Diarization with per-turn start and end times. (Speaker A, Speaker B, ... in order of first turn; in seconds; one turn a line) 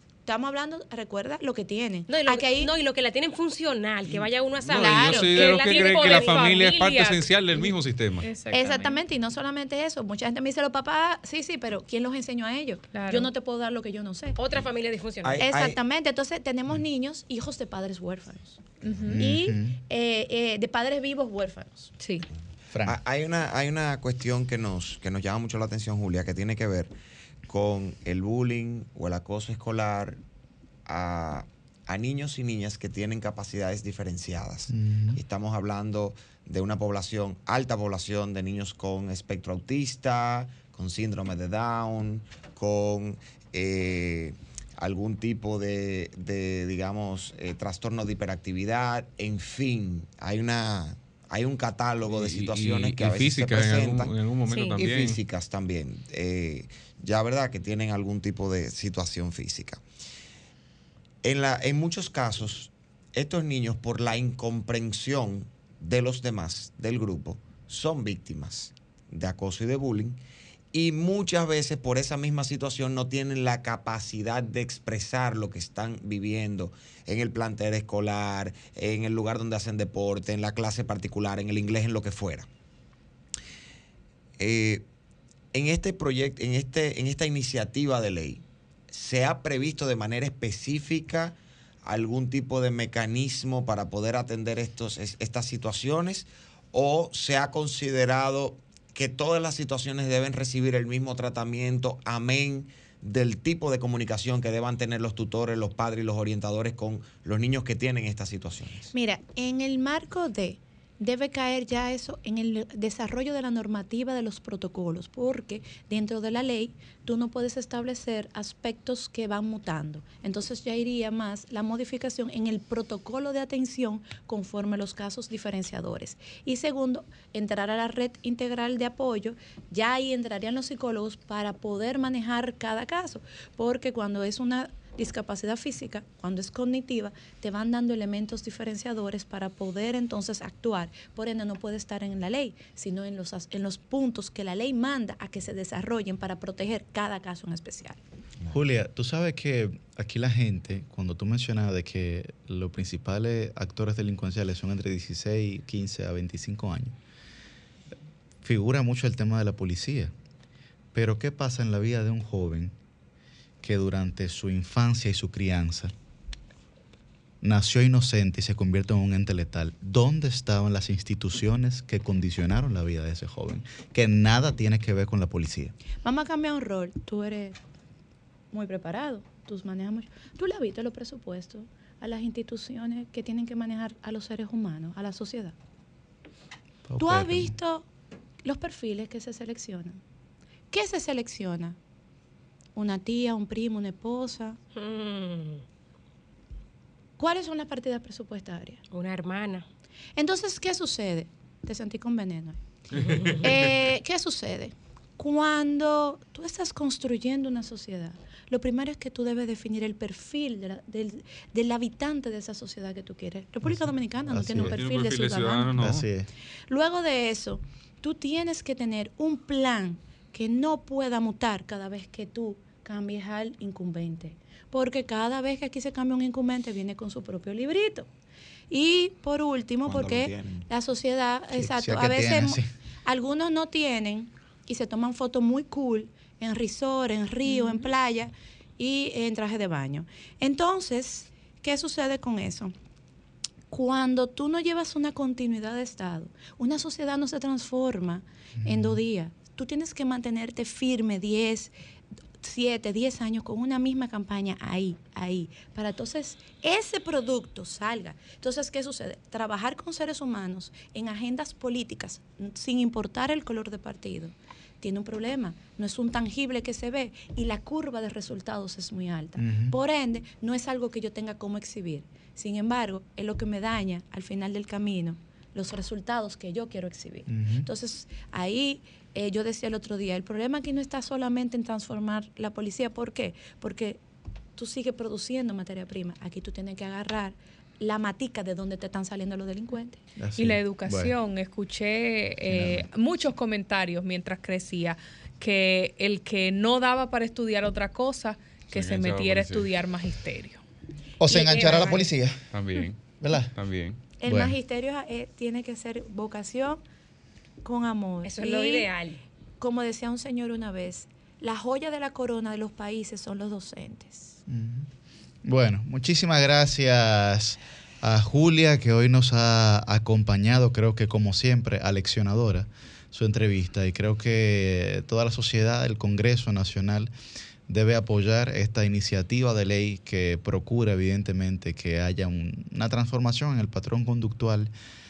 Speaker A: 0.2-2.7
Speaker B: 2.1-6.6
Speaker C: 4.1-8.3
Speaker D: 4.8-7.7
Speaker D: 8.3-8.6
Speaker A: 8.5-14.4
Speaker D: 12.9-13.2
Speaker B: 14.4-15.5
Speaker E: 15.2-15.8
Speaker A: 15.4-21.9
Speaker F: 19.1-19.8
Speaker F: 22.7-23.0
Speaker E: 22.8-26.9
Speaker E: 27.5-30.2
Speaker E: 30.9-54.1
Speaker F: 34.7-35.2
Speaker C: 52.1-55.2
Speaker B: 54.5-54.8
Speaker E: 54.8-59.8
Speaker E: 61.2-70.2
Speaker E: 70.7-82.5
Speaker E: 84.4-84.8
Speaker E: 85.5-108.9
Speaker A: 108.9-148.0
Speaker F: 148.5-156.9
Speaker F: 158.4-160.1
Speaker F: 160.9-162.7
Speaker F: 163.6-165.9
Speaker F: 167.4-175.7
Speaker A: 176.0-177.6
Speaker A: 178.5-185.5
Speaker F: 186.9-187.6
Speaker A: 187.0-187.8
Speaker A: 188.4-190.0
Speaker A: 190.7-191.8
Speaker A: 192.8-194.6
Speaker B: 194.8-195.6
Speaker A: 197.2-198.8
Speaker B: 198.9-199.7
Speaker A: 200.2-202.6
Speaker C: 203.0-203.7
Speaker B: 203.0-203.4
Speaker A: 203.4-215.8
Speaker F: 213.6-214.8
Speaker C: 214.7-216.0
Speaker F: 215.7-216.3
Speaker A: 216.7-228.1
Speaker A: 228.7-242.7
Speaker E: 229.8-230.7
Speaker F: 231.5-232.7
Speaker A: 243.7-251.7
Speaker F: 248.6-249.0
Speaker A: 252.4-284.0
Speaker F: 269.4-269.8
Speaker F: 277.3-277.7
Speaker A: 284.6-290.0
Speaker F: 290.2-291.1
Speaker D: 290.4-300.6
Speaker F: 292.5-292.9
Speaker C: 298.7-299.7
Speaker F: 301.2-302.4
Speaker B: 301.3-302.1
Speaker C: 302.5-303.0
Speaker F: 303.2-303.5
Speaker C: 303.5-304.0
Speaker A: 304.2-306.8
Speaker F: 304.2-304.6
Speaker A: 307.6-308.9
Speaker B: 308.2-309.2
Speaker A: 309.6-314.4
Speaker F: 314.5-314.9
Speaker F: 315.4-327.1
Speaker F: 327.7-334.7